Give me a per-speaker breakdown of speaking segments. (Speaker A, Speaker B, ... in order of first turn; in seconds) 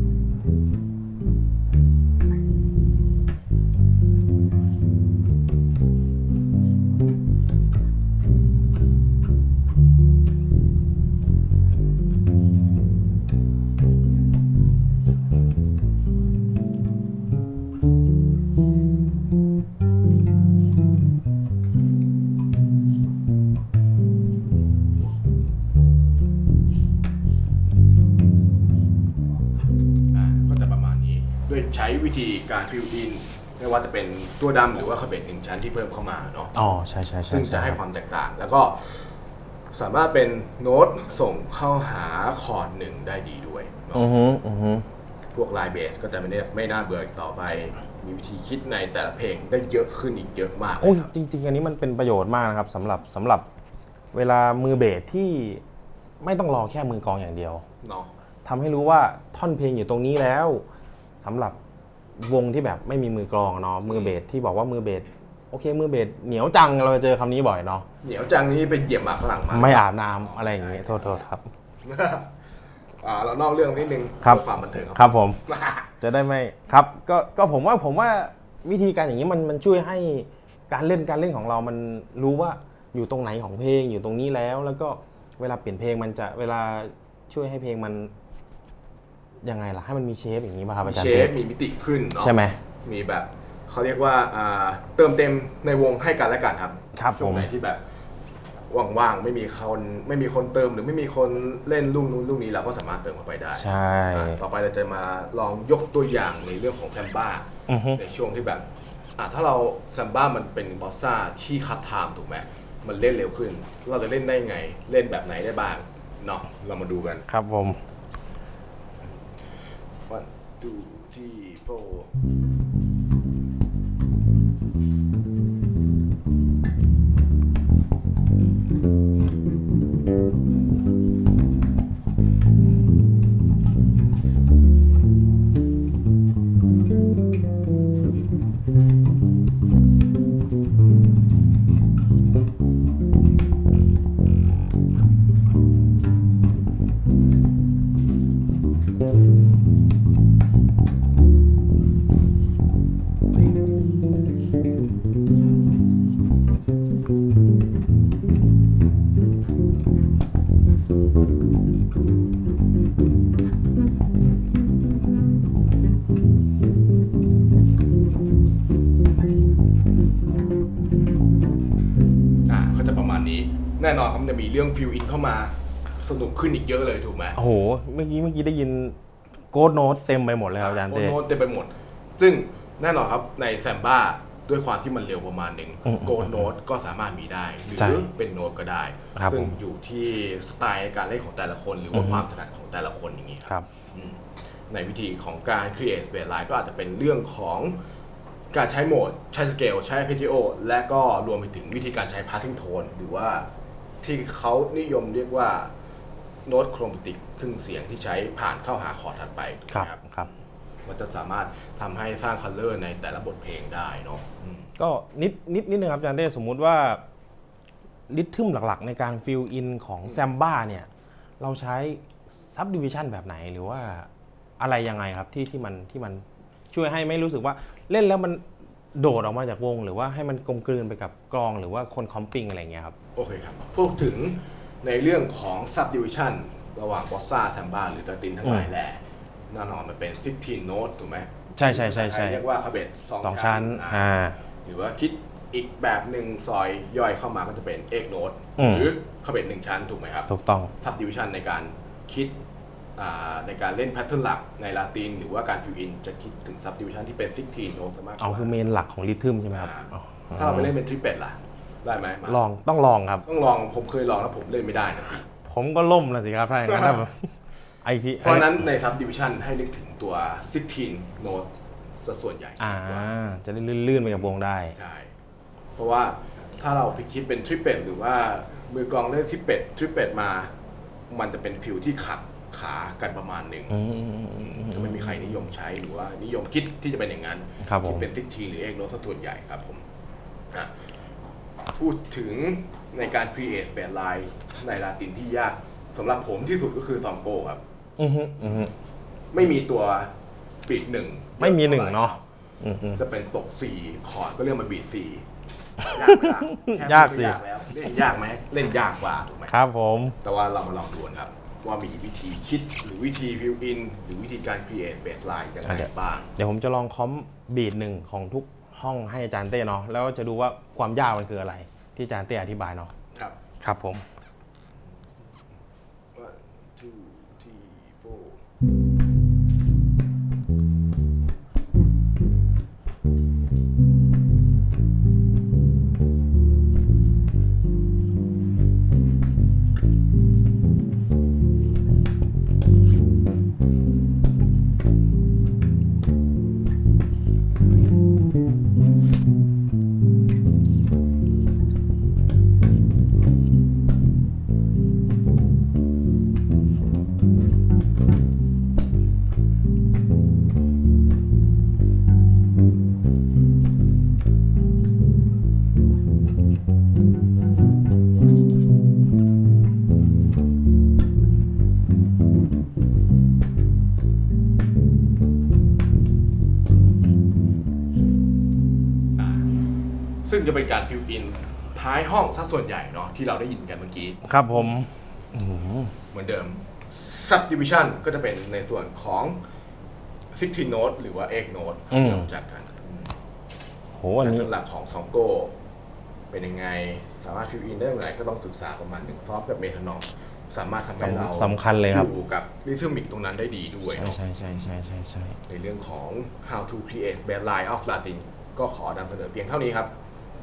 Speaker A: 30.1-36.5, 37.3-39.0, 39.7-44.1, 45.3-51.1, 57.8-58.1, 63.9-64.1, 68.0-71.3, 71.8-72.3, 73.0-75.9, 90.8-97.8, 98.7-108.6, 109.2-117.2, 120.1-122.1, 172.5-177.4, 180.6-194.2, 194.7-197.8, 198.5-203.4, 204.0-205.7, 206.4-210.3, 210.8-214.7, 233.2-244.1, 244.6-250.3, 250.8-252.3, 252.9-258.5, 259.5-262.4, 263.2-265.2, 268.2-271.5, 272.0-273.1, 274.7-275.1, 275.8-280.5, 281.1-283.7, 284.4-289.8, 291.8-297.6, 299.3-300.1, 300.6-302.1, 302.9-305.2, 305.8-309.5, 310.2-316.3, 326.1-328.4, 379.1-379.5, 380.2-384.2, 386.1-389.4, 390.3-393.1, 394.2-395.5, 396.3-404.2, 405.5-409.9
Speaker B: 36.5-37.8, 43.9-44.8, 50.8-53.5, 54.1-55.6, 56.2-57.6, 58.4-60.6, 61.2-61.6, 62.2-67.8, 69.5-71.5, 74.2-75.4, 76.0-88.1, 89.4-91.3, 92.2-92.6, 96.9-97.5, 103.6-104.4, 107.7-108.0, 117.3-117.8, 177.3-179.0, 179.5-181.2, 185.8-186.5, 187.8-188.1, 189.2-189.5, 191.9-192.2, 209.7-210.3, 214.8-217.0, 218.1-220.9, 221.4-228.4, 228.9-232.9, 241.5-242.4, 243.2-244.4, 248.6-248.9, 250.3-250.7, 258.2-260.7, 262.2-263.2, 265.4-267.3, 267.8-268.6, 272.6-274.7, 283.7-285.4, 287.6-288.1, 298.0-298.7, 301.4-303.0, 305.9-307.4, 309.5-310.2, 315.6-322.9, 323.6-324.0, 384.2-385.9, 391.9-392.3, 393.9-394.5, 400.9-402.1, 403.9-405.4